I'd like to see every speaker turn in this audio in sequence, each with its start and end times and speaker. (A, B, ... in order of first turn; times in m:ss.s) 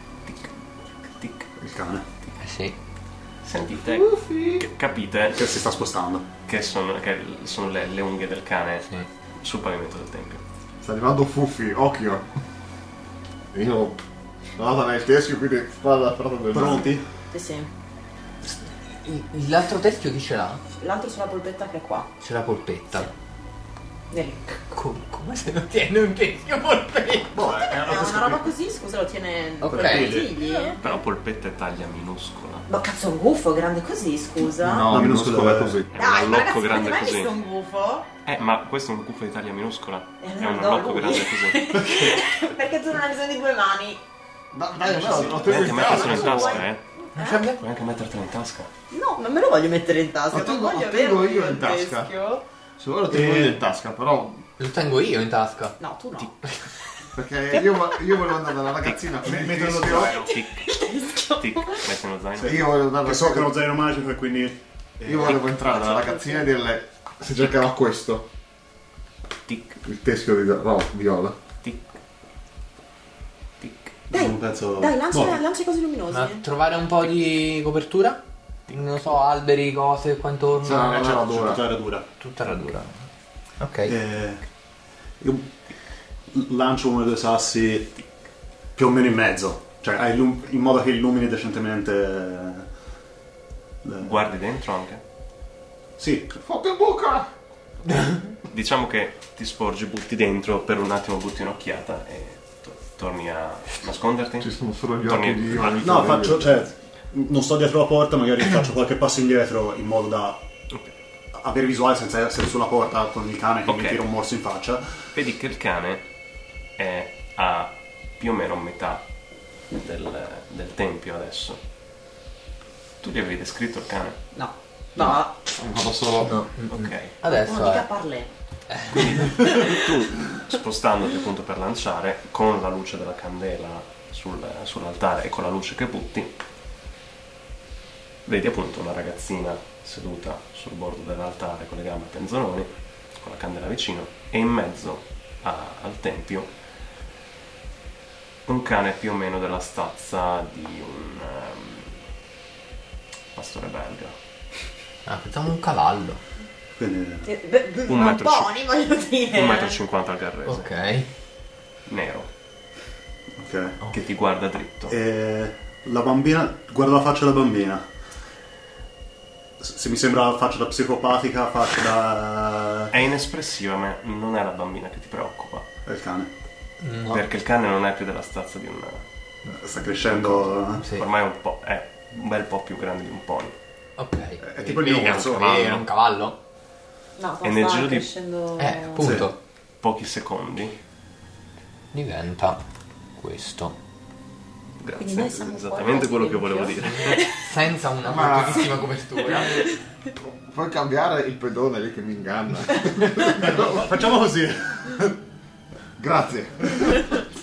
0:00.2-0:01.5 A
0:01.6-0:02.0 B
0:02.4-0:02.8 C
0:03.4-0:05.5 A
0:03.9-0:04.6 D
0:05.4-0:06.2 B
0:06.5-0:08.9 A
0:09.4-0:10.4 A
0:10.8-0:12.3 D
0:13.5-0:14.0 D
0:14.6-0:16.9 D
0:16.5-0:17.0 B
0:17.3-0:17.7 E
0:18.5-0:20.6 C
0:20.8-0:22.1 E
0:22.2-0:23.1 C
0:24.1-0:24.4 E
0:24.7-0:27.4 C
0:27.3-0:28.5 B
0:27.4-0:30.9 E
0:29.6-0:30.8 C
0:29.7-0:30.3 B
0:30.8-0:32.7 A
0:32.7-0:34.9 E
0:34.6-0:35.9 D
0:34.8-0:35.8 B
0:35.9-0:37.4 A
0:35.9-0:38.1 E
0:38.2-0:42.0 A
0:40.2-0:44.0 E
0:44.5-0:46.7 D
0:44.9-0:47.4 E
0:45.0-0:46.8 A
0:47.1-0:47.6 C
0:47.4-0:48.7 A
0:48.9-0:52.4 E
0:50.3-0:52.1 D
0:52.8-0:54.4 D
0:53.1-0:53.6 B
0:54.6-0:55.8 C
0:55.8-0:56.3 E
0:57.1-1:00.2 D
0:58.8-0:59.2 A
0:59.2-1:00.2 B
0:59.8-1:02.6 A
1:00.0-1:01.8 E
1:02.4-1:05.4 B
1:02.4-1:03.5 D
1:05.0-1:08.3 D
1:05.4-1:06.5 E
1:09.5-1:09.8 A
1:09.8-1:11.4 D
1:13.6-1:13.9 A
1:14.1-1:15.4 B
1:14.1-1:16.4 E
1:16.1-1:21.3 C
1:20.6-1:21.6 D
1:21.0-1:22.0 B
1:22.2-1:23.0 C
1:23.6-1:24.0 C
1:23.9-1:24.4 B
1:25.2-1:25.5 B
1:26.3-1:28.0 B
1:28.7-1:32.7 B
1:33.8-1:34.3 B
1:34.0-1:35.0 A
1:36.0-1:36.4 B
1:36.4-1:37.3 D
1:38.5-1:44.5 A
1:44.4-1:46.6 D
1:45.0-1:46.1 A
1:45.8-1:50.4 B
1:51.3-1:55.0 B
1:53.6-1:54.0 A
1:55.1-1:56.0 A
1:56.8-1:59.0 A
1:59.7-2:01.6 A
2:03.0-2:04.2 A
2:04.3-2:05.4 E
2:05.6-2:06.4 D
2:06.2-2:07.8 C
2:06.7-2:07.1 A
2:07.2-2:08.3 E
2:08.7-2:09.3 C
2:08.9-2:16.3 A
2:09.4-2:09.8 E
2:18.2-2:26.5 A
2:28.4-2:32.0 A
2:33.3-2:34.2 A
2:35.0-2:36.2 C
2:36.8-2:37.3 B
2:37.2-2:39.8 E
2:37.8-2:38.7 A
2:39.3-2:40.7 A
2:40.4-2:41.1 C
2:41.9-2:42.3 A
2:43.4-2:43.9 B
2:43.9-2:44.9 A
2:44.9-2:47.8 B
2:49.6-2:52.9 B
2:52.9-2:55.7 A
2:55.8-2:56.3 B
2:56.8-2:57.3 C
2:57.1-2:59.0 A
2:59.5-3:00.9 B
3:00.0-3:03.5 A
3:00.8-3:01.0 C
3:04.0-3:06.4 C
3:04.4-3:05.6 B
3:04.9-3:05.9 A
3:07.2-3:09.0 E
3:07.4-3:08.1 A
3:08.6-3:09.4 C
3:09.0-3:09.3 B
3:09.8-3:10.7 A
3:11.9-3:12.6 C
3:13.2-3:13.8 C
3:14.8-3:17.2 A
3:15.0-3:17.4 E
3:17.0-3:19.5 C
3:18.0-3:23.8 D
3:23.2-3:25.2 B
3:26.0-3:27.2 D